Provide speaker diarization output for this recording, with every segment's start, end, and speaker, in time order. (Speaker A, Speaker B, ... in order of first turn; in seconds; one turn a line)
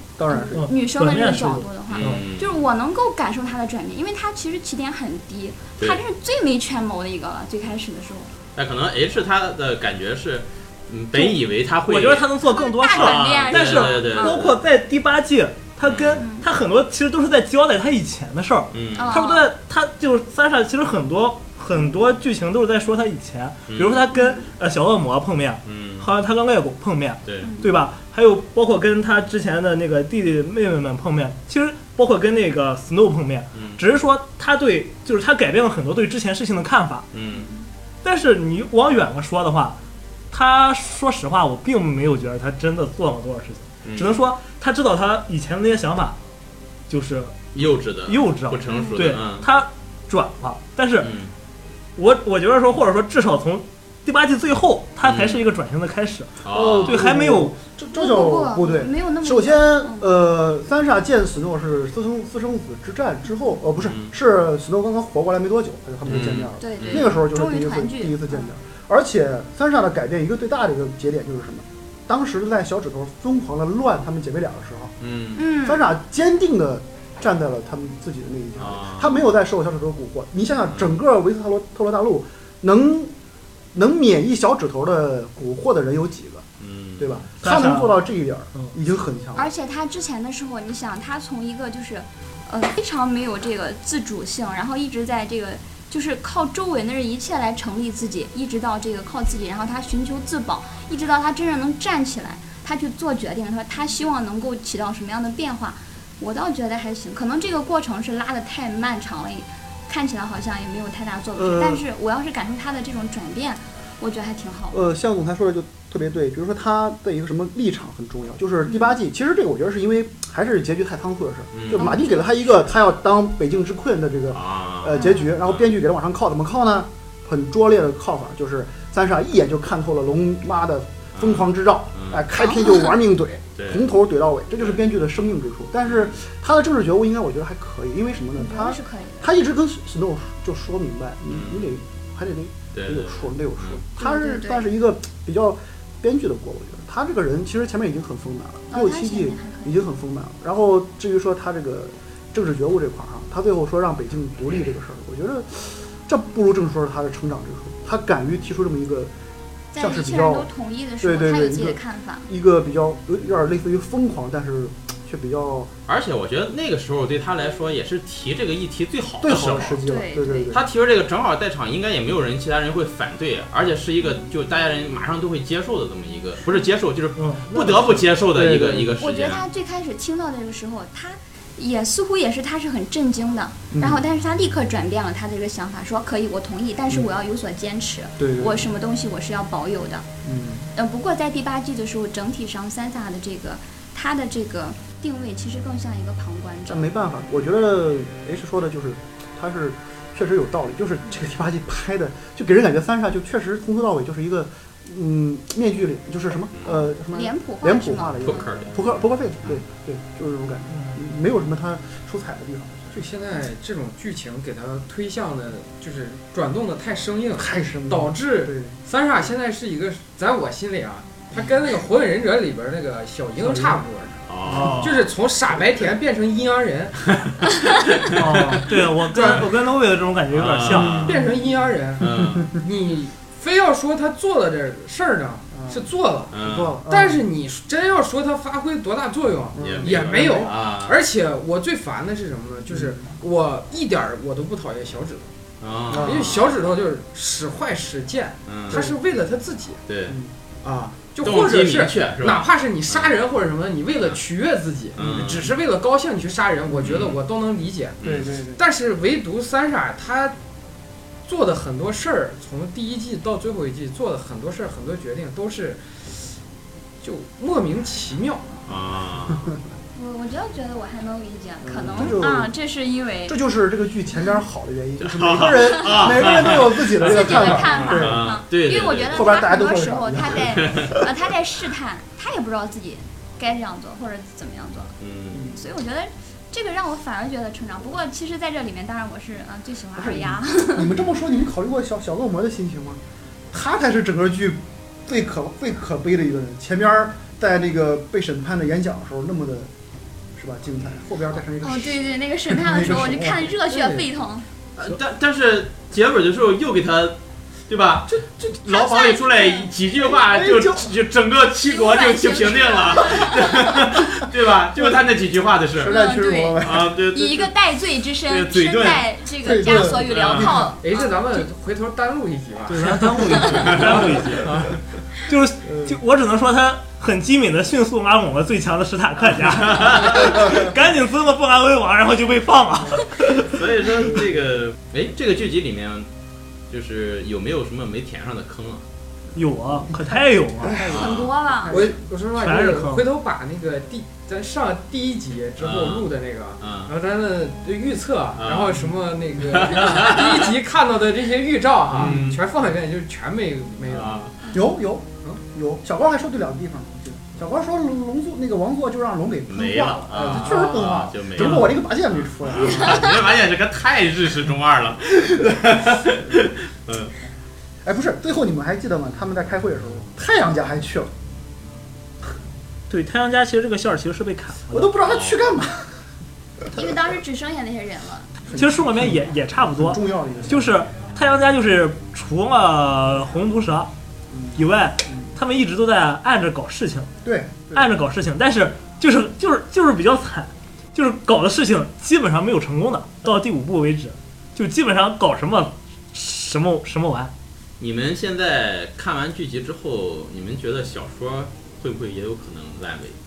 Speaker A: 0.2-0.7
Speaker B: 0.3-8.3
Speaker C: 0.5-2.2
Speaker D: 1.9-2.5
Speaker D: 8.5-12.3
Speaker C: 11.2-37.1
Speaker B: 12.4-14.5
Speaker D: 12.9-14.5
Speaker D: 15.8-16.2
Speaker B: 16.2-16.4
Speaker D: 18.7-19.1
Speaker B: 18.9-19.5
Speaker D: 23.7-24.0
Speaker B: 24.1-24.4
Speaker D: 25.6-26.1
Speaker D: 27.2-27.5
Speaker B: 27.4-27.7
Speaker D: 33.5-33.8
Speaker D: 37.1-37.5
Speaker B: 37.3-37.6
Speaker C: 38.0-39.8
Speaker C: 40.3-46.2
Speaker D: 43.8-44.2
Speaker C: 46.9-51.1
Speaker D: 47.5-49.4
Speaker B: 48.7-49.0
Speaker D: 51.0-51.3
Speaker C: 52.0-57.5
Speaker D: 55.0-55.4
Speaker D: 56.4-57.1
Speaker A: 56.5-74.9
Speaker B: 57.9-60.1
Speaker D: 63.8-64.1
Speaker D: 66.0-67.1
Speaker B: 66.6-68.5
Speaker D: 75.0-75.4
Speaker B: 75.3-75.8
Speaker A: 75.5-83.1
Speaker D: 78.6-79.2
Speaker D: 80.7-81.0
Speaker A: 83.7-86.5
Speaker D: 86.6-87.2
Speaker A: 87.0-89.5
Speaker C: 87.4-88.0
Speaker B: 89.3-114.8
Speaker A: 111.4-111.8
Speaker A: 114.7-159.1
Speaker B: 118.6-118.9
Speaker D: 121.5-121.9
Speaker B: 121.8-122.4
Speaker D: 124.3-125.7
Speaker B: 125.0-125.3
Speaker D: 131.1-132.3
Speaker B: 132.3-132.9
Speaker D: 133.6-133.9
Speaker D: 135.8-136.2
Speaker B: 138.3-139.3
Speaker D: 141.3-141.7
Speaker D: 142.7-143.8
Speaker B: 144.0-144.7
Speaker B: 148.7-149.8
Speaker B: 159.7-162.3
Speaker A: 159.7-160.5
Speaker A: 161.0-165.7
Speaker D: 165.9-169.8
Speaker A: 169.2-170.7
Speaker B: 169.8-170.6
Speaker D: 170.5-179.4
Speaker C: 177.2-178.0
Speaker A: 178.3-178.9
Speaker B: 179.0-190.1
Speaker A: 183.7-184.0
Speaker A: 188.2-188.7
Speaker A: 190.2-190.7
Speaker B: 190.7-197.0
Speaker A: 196.7-213.0
Speaker B: 206.7-208.4
Speaker D: 208.2-208.8
Speaker E: 212.9-227.0
Speaker A: 217.4-218.7
Speaker D: 224.3-224.9
Speaker C: 224.4-225.0
Speaker D: 227.9-228.4
Speaker C: 228.1-231.2
Speaker E: 228.6-229.5
Speaker D: 229.1-229.4
Speaker D: 230.3-231.2
Speaker E: 230.9-245.3
Speaker D: 232.0-232.6
Speaker A: 235.5-237.2
Speaker D: 236.3-236.8
Speaker A: 239.5-240.5
Speaker D: 239.6-241.0
Speaker A: 242.7-243.1
Speaker D: 245.6-246.5
Speaker A: 245.9-246.3
Speaker E: 245.9-249.8
Speaker D: 248.5-248.9
Speaker D: 249.9-250.2
Speaker E: 250.6-260.4
Speaker D: 251.2-253.1
Speaker D: 254.9-255.5
Speaker D: 256.8-257.2
Speaker D: 258.0-258.3
Speaker A: 258.0-258.6
Speaker E: 261.2-266.4
Speaker E: 267.0-268.6
Speaker D: 268.7-269.6
Speaker B: 269.9-273.4
Speaker A: 271.6-272.5
Speaker A: 273.3-278.3
Speaker D: 275.0-279.2
Speaker B: 275.6-276.4
Speaker B: 276.9-284.9
Speaker A: 279.1-281.0
Speaker D: 280.6-280.9
Speaker D: 285.0-285.5
Speaker A: 285.3-285.6
Speaker B: 285.5-290.9
Speaker A: 289.9-293.0
Speaker A: 293.5-299.7
Speaker A: 300.3-303.5
Speaker B: 301.6-304.4
Speaker E: 303.7-304.0
Speaker D: 304.8-307.2
Speaker D: 307.7-316.0
Speaker A: 308.1-308.8
Speaker B: 308.6-309.7
Speaker A: 310.1-310.9
Speaker B: 311.6-313.9
Speaker A: 315.8-317.1
Speaker B: 315.8-321.1
Speaker D: 316.6-317.5
Speaker D: 318.3-319.1
Speaker A: 319.4-320.7
Speaker D: 319.7-320.7
Speaker E: 320.8-324.1
Speaker C: 322.7-333.6
Speaker B: 323.4-323.7
Speaker D: 323.5-324.0
Speaker A: 325.7-326.0
Speaker D: 329.7-330.2
Speaker D: 333.3-336.1
Speaker D: 336.7-338.8
Speaker C: 339.4-340.9
Speaker A: 339.9-342.0
Speaker D: 340.7-341.3
Speaker B: 340.8-341.8
Speaker E: 341.6-354.3
Speaker C: 342.4-343.0
Speaker D: 345.6-346.1
Speaker D: 346.6-346.9
Speaker D: 348.4-348.8
Speaker D: 349.5-350.5
Speaker D: 351.9-352.4
Speaker D: 353.9-354.3
Speaker A: 354.5-363.1
Speaker D: 359.5-367.1
Speaker E: 360.3-360.9
Speaker A: 367.8-371.1
Speaker C: 372.9-374.9
Speaker A: 374.7-375.9
Speaker D: 375.1-375.4
Speaker B: 376.7-378.3
Speaker A: 378.5-379.1
Speaker C: 378.5-383.9
Speaker A: 379.7-380.7
Speaker A: 384.3-385.3
Speaker C: 384.5-387.1
Speaker A: 387.2-387.9
Speaker C: 387.7-397.3
Speaker D: 397.8-403.2